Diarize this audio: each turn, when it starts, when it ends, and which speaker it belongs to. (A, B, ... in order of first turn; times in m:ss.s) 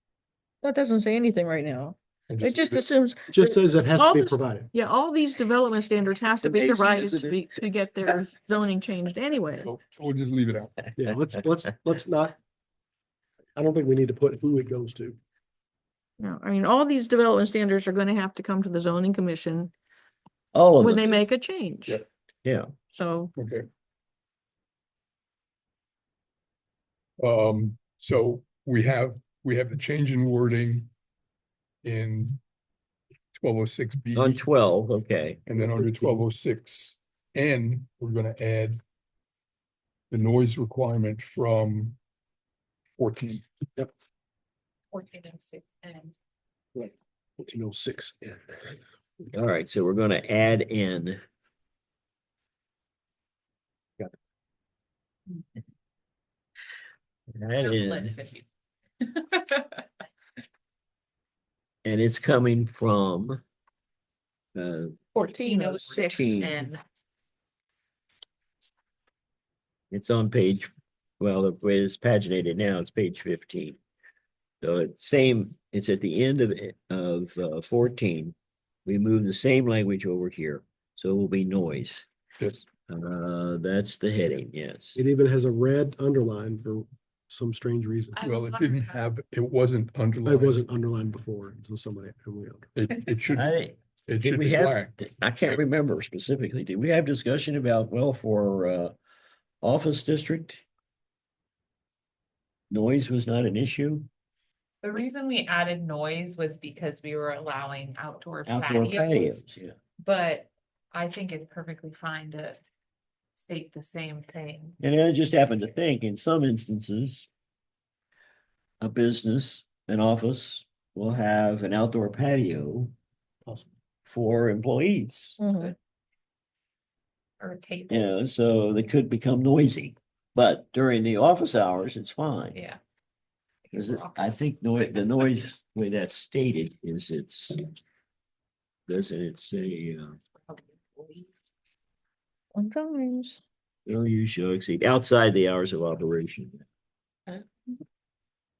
0:00.6-0:09.7 A
0:02.3-0:02.8 B
0:03.3-0:04.7 C
0:06.4-0:07.5 D
0:09.6-0:10.8 B
0:11.0-0:12.4 C
0:13.6-0:15.2 C
0:16.2-0:19.7 A
0:20.5-0:21.2 D
0:20.8-0:22.0 A
0:22.4-0:22.7 D
0:22.9-0:23.3 A
0:23.3-0:23.7 B
0:27.2-0:30.9 B
0:31.8-0:32.4 B
0:33.3-0:34.4 B
0:34.2-0:35.4 D
0:35.5-0:38.8 B
0:40.1-0:42.0 B
0:43.0-0:43.4 B
0:44.9-0:46.1 E
0:46.8-0:48.2 C
0:49.3-0:51.2 D
0:57.3-0:58.2 D
0:57.6-0:58.4 E
0:59.0-0:59.9 E
1:01.8-1:03.4 D
1:04.5-1:05.0 D
1:05.2-1:06.8 E
1:05.2-1:06.3 A
1:05.9-1:06.7 D
1:09.9-1:13.8 D
1:14.6-1:18.3 D
1:18.8-1:22.1 D
1:22.4-1:22.7 B
1:22.9-1:25.0 D
1:25.0-1:28.2 C
1:28.1-1:29.0 E
1:28.2-1:30.6 B
1:30.2-1:32.7 C
1:32.8-1:33.5 B
1:33.3-1:38.9 D
1:34.1-1:34.9 B
1:39.6-1:40.6 D
1:42.7-1:44.1 D
1:44.8-1:49.5 E
1:48.5-1:49.7 D
1:50.0-1:52.6 E
1:53.4-1:54.8 E
1:54.8-1:57.3 D
1:58.8-2:02.9 D
2:04.1-2:05.4 D
2:05.4-2:05.7 A
2:07.4-2:08.1 E
2:07.9-2:12.6 D
2:12.5-2:12.8 E
2:13.6-2:14.4 E
2:13.7-2:17.7 D
2:18.9-2:20.2 D
2:20.2-2:21.3 E
2:22.5-2:23.4 A
2:23.8-2:26.6 D
2:27.3-2:27.7 E